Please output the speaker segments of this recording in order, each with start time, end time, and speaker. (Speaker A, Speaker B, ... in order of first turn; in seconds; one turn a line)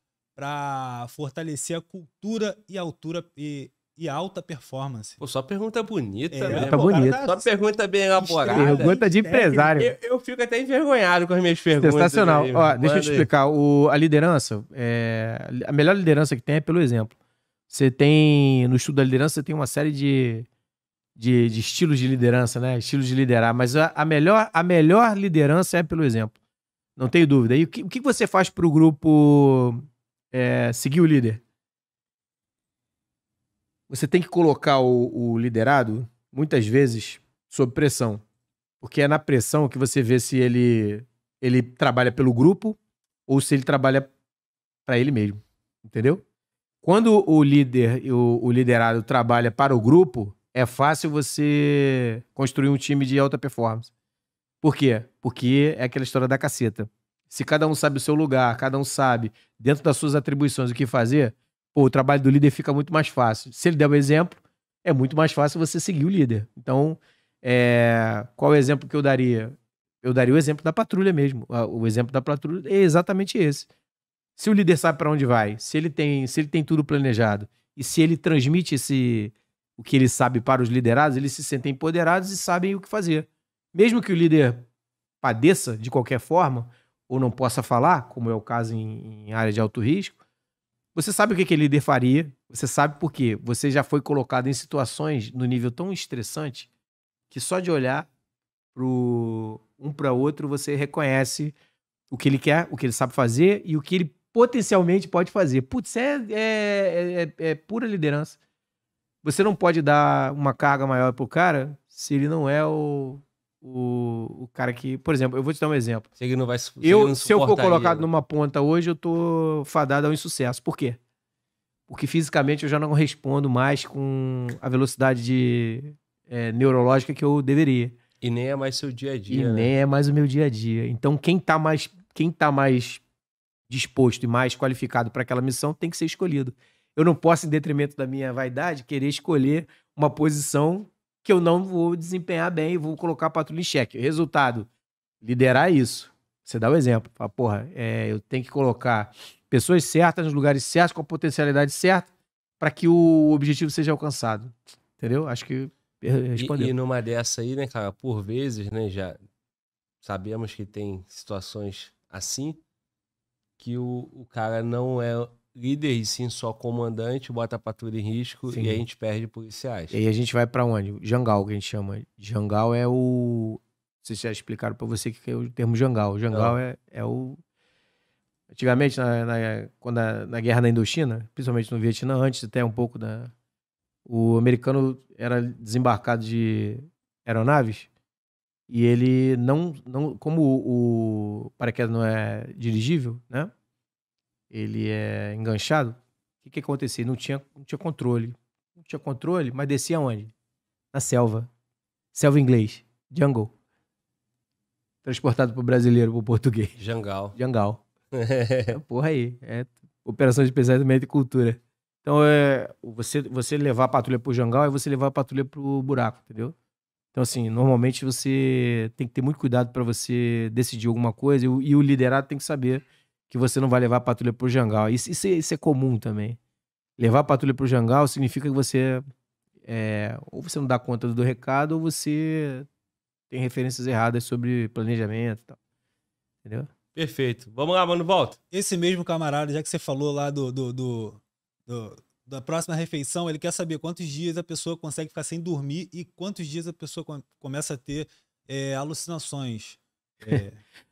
Speaker A: 0.4-5.2
Speaker B: 5.2-9.0
Speaker A: 6.3-7.5
Speaker C: 6.5-7.2
Speaker A: 8.2-9.7
Speaker C: 8.5-9.9
Speaker B: 9.7-13.3
Speaker C: 11.8-17.1
Speaker C: 17.7-20.5
Speaker C: 21.2-26.4
Speaker C: 27.0-31.4
Speaker C: 33.9-38.2
Speaker C: 38.8-44.1
Speaker C: 44.9-46.2
Speaker C: 46.8-53.9
Speaker C: 54.6-73.7
Speaker C: 74.4-84.7
Speaker C: 85.2-90.2
Speaker C: 91.0-96.7
Speaker C: 97.3-98.1
Speaker C: 98.8-101.5
Speaker C: 102.1-108.4
Speaker C: 109.2-116.1
Speaker B: 116.2-118.1
Speaker C: 116.8-121.0
Speaker C: 121.9-128.0
Speaker B: 128.2-129.7
Speaker C: 129.3-133.0
Speaker C: 133.7-144.7
Speaker C: 145.2-152.1
Speaker C: 152.6-156.7
Speaker B: 156.4-159.2
Speaker B: 160.0-162.6
Speaker B: 163.6-170.0
Speaker C: 168.5-168.8
Speaker C: 169.9-177.4
Speaker B: 176.3-176.6
Speaker C: 178.5-183.3
Speaker C: 184.1-187.9
Speaker C: 188.7-193.5
Speaker C: 194.5-200.3
Speaker C: 200.9-201.5
Speaker C: 202.1-203.5
Speaker C: 205.0-206.8
Speaker B: 206.8-207.4
Speaker C: 207.3-207.8
Speaker B: 208.1-208.8
Speaker C: 208.7-216.5
Speaker C: 217.1-226.4
Speaker C: 227.0-229.0
Speaker C: 229.7-232.7
Speaker C: 233.3-235.6
Speaker C: 236.4-236.7
Speaker B: 236.9-238.4
Speaker A: 238.5-250.6